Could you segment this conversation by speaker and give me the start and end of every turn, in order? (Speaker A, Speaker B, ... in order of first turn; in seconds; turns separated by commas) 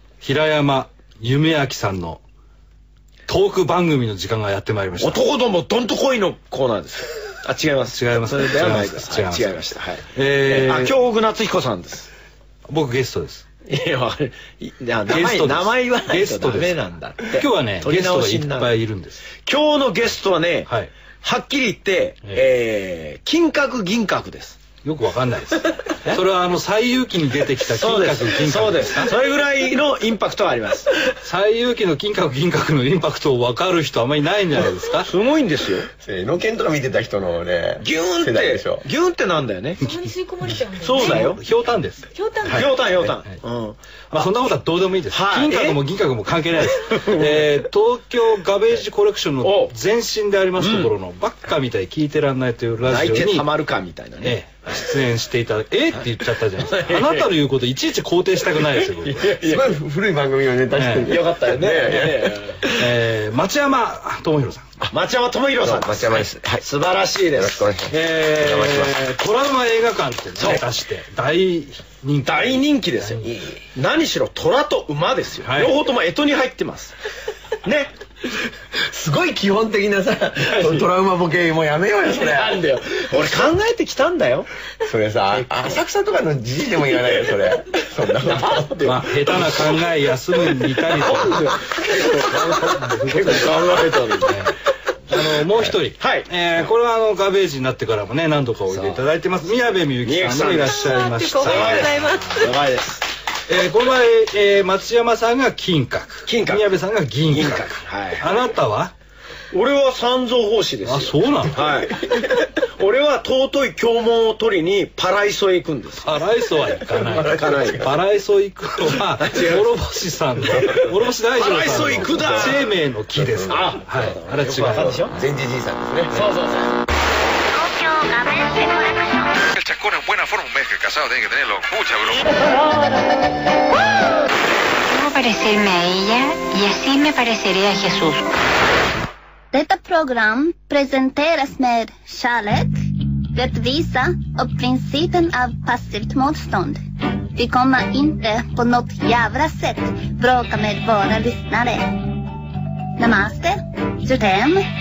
Speaker A: 0.2-2.2, Speaker A: 3.3-5.2, Speaker B: 5.0-12.1, Speaker A: 7.9-10.9, Speaker A: 12.7-13.4, Speaker B: 13.7-18.7, Speaker A: 15.1-19.2, Speaker B: 19.4-20.7, Speaker B: 21.2-24.6, Speaker A: 24.8-29.1, Speaker B: 27.7-30.9, Speaker A: 31.2-35.1, Speaker B: 35.0-35.9, Speaker C: 36.0-38.8, Speaker B: 37.8-39.8, Speaker D: 39.8-41.3, Speaker B: 40.8-41.4, Speaker A: 40.9-42.1, Speaker D: 42.1-42.8, Speaker B: 42.5-44.3, Speaker A: 44.1-53.5, Speaker B: 45.1-45.8, Speaker B: 46.7-47.5, Speaker B: 49.4-49.7, Speaker B: 50.6-50.9, Speaker B: 52.8-54.4, Speaker A: 54.2-59.3, Speaker B: 56.6-57.3, Speaker B: 59.0-59.8, Speaker C: 59.2-62.6, Speaker A: 60.7-61.2, Speaker B: 61.0-62.7, Speaker A: 62.7-64.7, Speaker B: 64.8-67.7, Speaker C: 65.6-66.6, Speaker C: 67.3-69.0, Speaker A: 67.9-73.3, Speaker B: 70.4-70.6, Speaker B: 72.2-76.9, Speaker C: 73.2-73.6, Speaker A: 75.4-75.8, Speaker B: 77.6-77.9, Speaker C: 78.7-83.2, Speaker B: 80.4-80.9, Speaker B: 82.1-84.5, Speaker C: 84.8-89.0, Speaker B: 85.3-85.8, Speaker B: 88.2-89.6, Speaker A: 88.8-94.5, Speaker B: 90.8-94.4, Speaker A: 95.1-102.3, Speaker B: 96.0-96.3, Speaker B: 98.7-99.0, Speaker B: 100.0-100.9, Speaker D: 100.6-102.5, Speaker B: 101.4-103.0, Speaker A: 103.5-108.9, Speaker B: 106.2-106.7, Speaker B: 107.3-108.2, Speaker B: 109.5-116.1, Speaker A: 110.8-111.8, Speaker A: 116.0-125.0, Speaker B: 117.0-117.9, Speaker C: 117.0-117.9, Speaker B: 119.2-119.6, Speaker B: 121.3-122.7, Speaker C: 123.2-123.8, Speaker B: 123.4-125.2, Speaker C: 125.0-126.2, Speaker B: 126.1-126.8, Speaker E: 127.5-129.4, Speaker F: 129.5-132.4, Speaker G: 134.8-138.3, Speaker E: 139.5-146.8, Speaker E: 147.3-152.1, Speaker E: 153.0-154.7